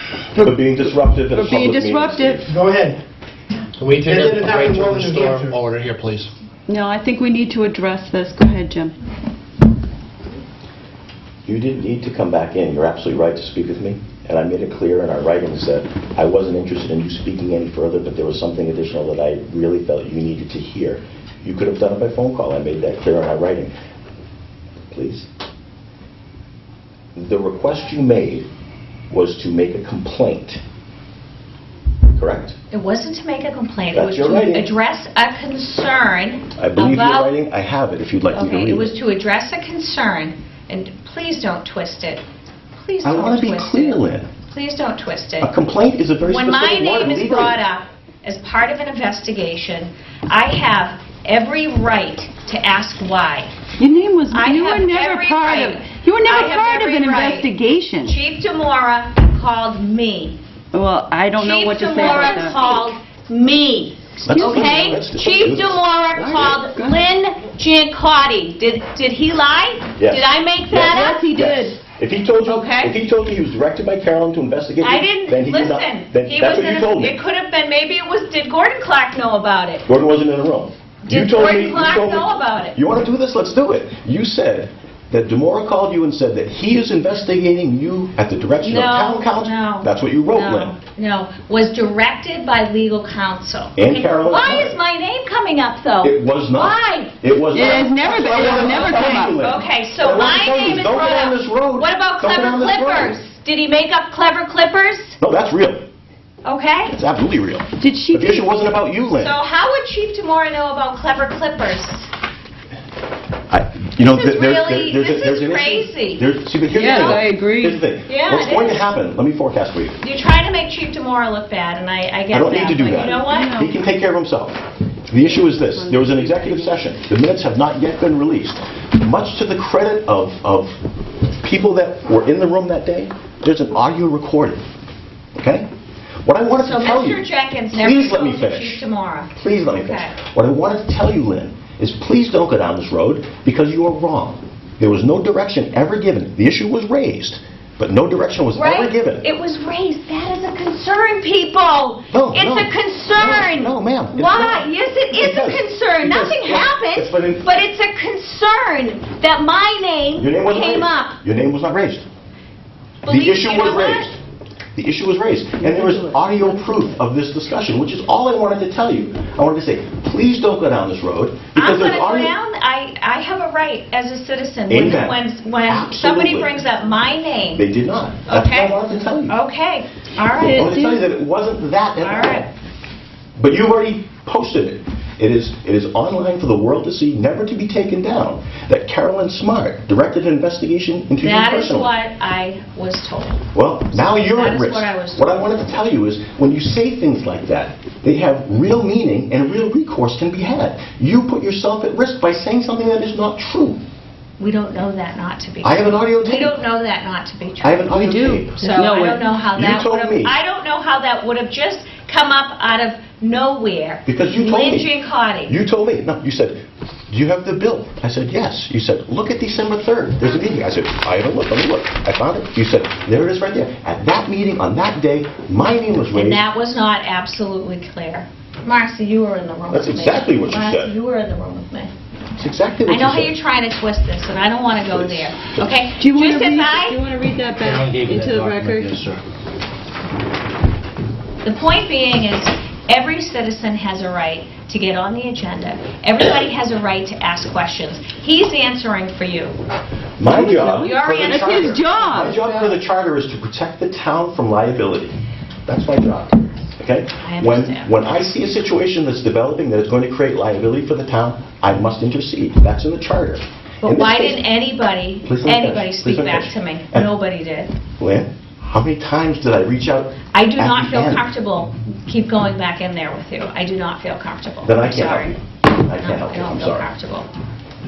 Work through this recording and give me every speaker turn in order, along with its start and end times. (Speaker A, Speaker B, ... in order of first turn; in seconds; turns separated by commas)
Speaker A: 0.3-2.5, Speaker B: 0.4-2.5, Speaker C: 2.5-3.0, Speaker D: 3.8-6.3, Speaker C: 3.8-5.6, Speaker A: 6.7-8.9, Speaker B: 11.4-23.7, Speaker B: 24.9-25.3, Speaker B: 27.1-28.5, Speaker B: 29.1-30.6, Speaker B: 32.1-32.5, Speaker E: 32.7-37.3, Speaker B: 33.9-34.7, Speaker B: 36.6-38.9, Speaker E: 38.3-42.2, Speaker E: 42.8-45.5, Speaker B: 43.0-44.3, Speaker B: 45.4-47.6, Speaker E: 46.2-53.5, Speaker A: 53.8-58.1, Speaker E: 54.3-57.5, Speaker E: 58.0-60.4, Speaker A: 60.7-62.9, Speaker E: 61.4-71.2, Speaker B: 64.2-66.6, Speaker A: 64.3-65.0, Speaker A: 66.5-67.0, Speaker B: 70.0-77.2, Speaker A: 70.8-71.8, Speaker E: 72.4-73.0, Speaker E: 74.8-79.8, Speaker B: 79.8-90.7, Speaker E: 81.0-82.8, Speaker E: 88.6-97.1, Speaker B: 93.8-94.8, Speaker B: 96.0-103.2, Speaker A: 97.5-99.3, Speaker E: 98.5-105.2, Speaker B: 105.2-105.8, Speaker E: 106.4-107.0, Speaker B: 106.9-109.3, Speaker A: 107.8-108.5, Speaker E: 109.1-112.1, Speaker B: 113.5-120.0, Speaker E: 114.0-116.2, Speaker A: 116.7-117.8, Speaker E: 118.1-118.9, Speaker E: 120.0-123.7, Speaker B: 122.3-130.8, Speaker A: 123.0-123.7, Speaker A: 125.2-126.9, Speaker B: 131.4-134.6, Speaker B: 135.3-135.7, Speaker B: 136.2-138.8, Speaker E: 136.5-140.1, Speaker B: 139.3-149.2, Speaker E: 148.5-161.2, Speaker B: 152.1-157.5, Speaker B: 160.2-162.0, Speaker E: 163.0-164.1, Speaker B: 163.1-164.1, Speaker B: 164.7-172.3, Speaker A: 165.6-166.7, Speaker E: 171.5-177.7, Speaker B: 174.7-176.9, Speaker B: 177.5-179.3, Speaker E: 178.2-180.7, Speaker A: 180.4-181.0, Speaker B: 180.4-182.5, Speaker E: 182.0-182.5, Speaker B: 183.4-191.9, Speaker E: 191.2-193.4, Speaker B: 193.5-203.8, Speaker E: 194.0-195.5, Speaker E: 204.4-208.0, Speaker B: 205.6-206.6, Speaker B: 207.6-208.6, Speaker A: 207.9-209.2, Speaker E: 208.6-215.6, Speaker B: 209.5-210.4, Speaker B: 214.1-214.9, Speaker B: 215.4-226.4, Speaker E: 226.1-231.9, Speaker B: 229.7-230.9, Speaker B: 232.4-233.3, Speaker E: 232.8-237.0, Speaker B: 234.9-235.3, Speaker A: 235.9-239.0, Speaker D: 237.6-239.2, Speaker E: 241.4-249.6, Speaker B: 250.2-255.1, Speaker A: 250.3-252.4, Speaker E: 250.3-252.2, Speaker B: 255.7-264.5, Speaker E: 257.2-257.9, Speaker E: 263.8-267.7, Speaker B: 265.2-267.1, Speaker B: 268.0-271.3, Speaker E: 270.3-275.4, Speaker B: 274.6-276.9, Speaker E: 276.0-277.3